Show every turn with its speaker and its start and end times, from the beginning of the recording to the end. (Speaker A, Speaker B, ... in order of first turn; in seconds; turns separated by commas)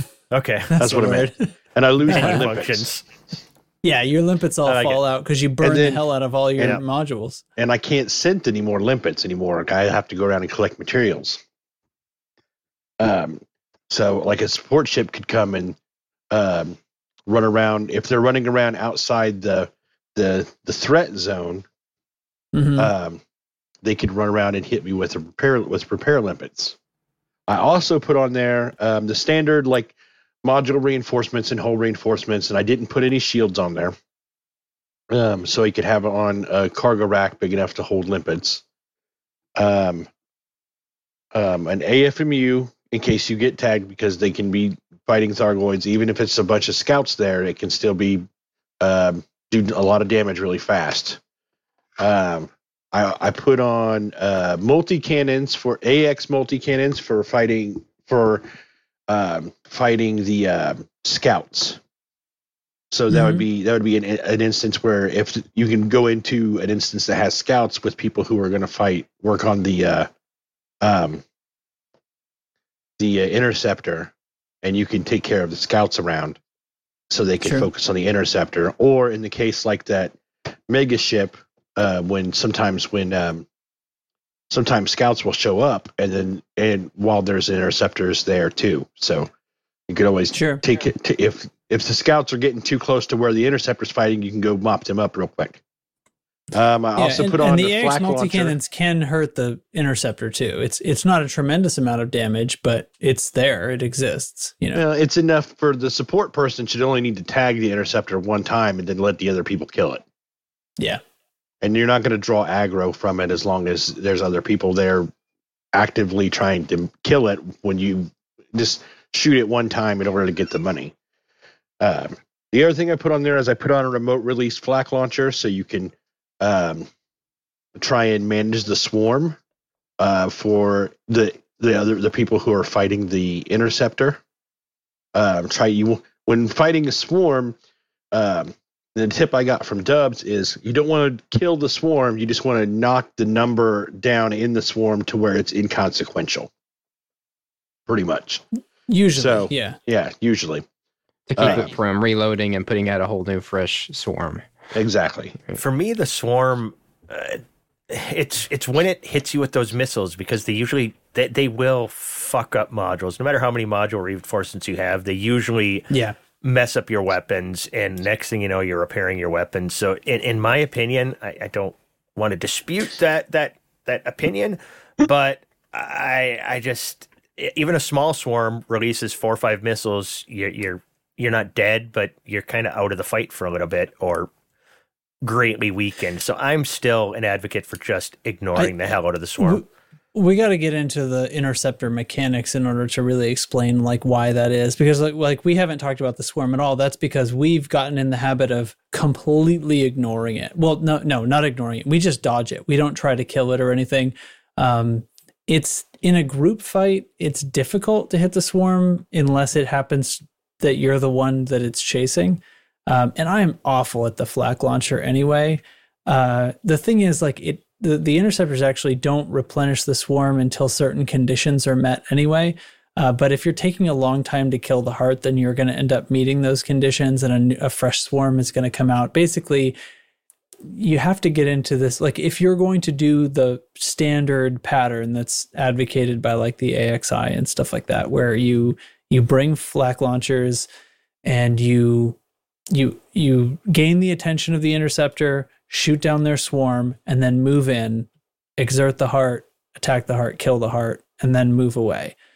Speaker A: 0.3-1.0, Speaker B: 0.7-1.4, Speaker C: 0.8-2.9, Speaker A: 2.0-3.0, Speaker B: 2.1-2.5, Speaker B: 3.8-7.4, Speaker A: 4.7-5.0, Speaker C: 5.6-6.0, Speaker C: 7.6-11.4, Speaker C: 13.0-15.8, Speaker C: 16.3-21.6, Speaker B: 22.5-22.9, Speaker C: 22.8-23.2, Speaker C: 23.8-26.8, Speaker C: 27.5-33.9, Speaker C: 35.1-38.6, Speaker C: 39.5-40.1, Speaker C: 41.3-48.2, Speaker C: 48.8-51.2, Speaker C: 52.0-58.5, Speaker C: 59.1-61.8, Speaker C: 62.9-70.1, Speaker B: 63.1-63.4, Speaker C: 70.8-71.2, Speaker C: 73.0-74.1, Speaker C: 74.6-76.4, Speaker C: 77.1-80.1, Speaker B: 77.4-77.7, Speaker C: 80.7-83.5, Speaker C: 84.5-89.3, Speaker C: 89.9-95.6, Speaker B: 90.3-90.6, Speaker C: 96.5-98.5, Speaker B: 97.0-104.8, Speaker C: 104.7-110.0, Speaker C: 111.6-115.1, Speaker C: 115.7-120.9, Speaker C: 121.8-126.9, Speaker C: 127.8-129.4, Speaker C: 130.0-134.2, Speaker C: 135.1-137.6, Speaker C: 138.1-146.5, Speaker C: 147.9-148.4, Speaker B: 148.9-149.8, Speaker C: 149.2-150.6, Speaker D: 151.3-154.4, Speaker C: 151.4-151.7, Speaker C: 154.7-155.3, Speaker A: 155.6-165.9, Speaker B: 165.9-166.2, Speaker A: 166.4-184.3, Speaker A: 185.2-189.6, Speaker B: 189.4-229.8, Speaker B: 230.7-240.7, Speaker B: 241.2-242.2, Speaker B: 242.7-252.1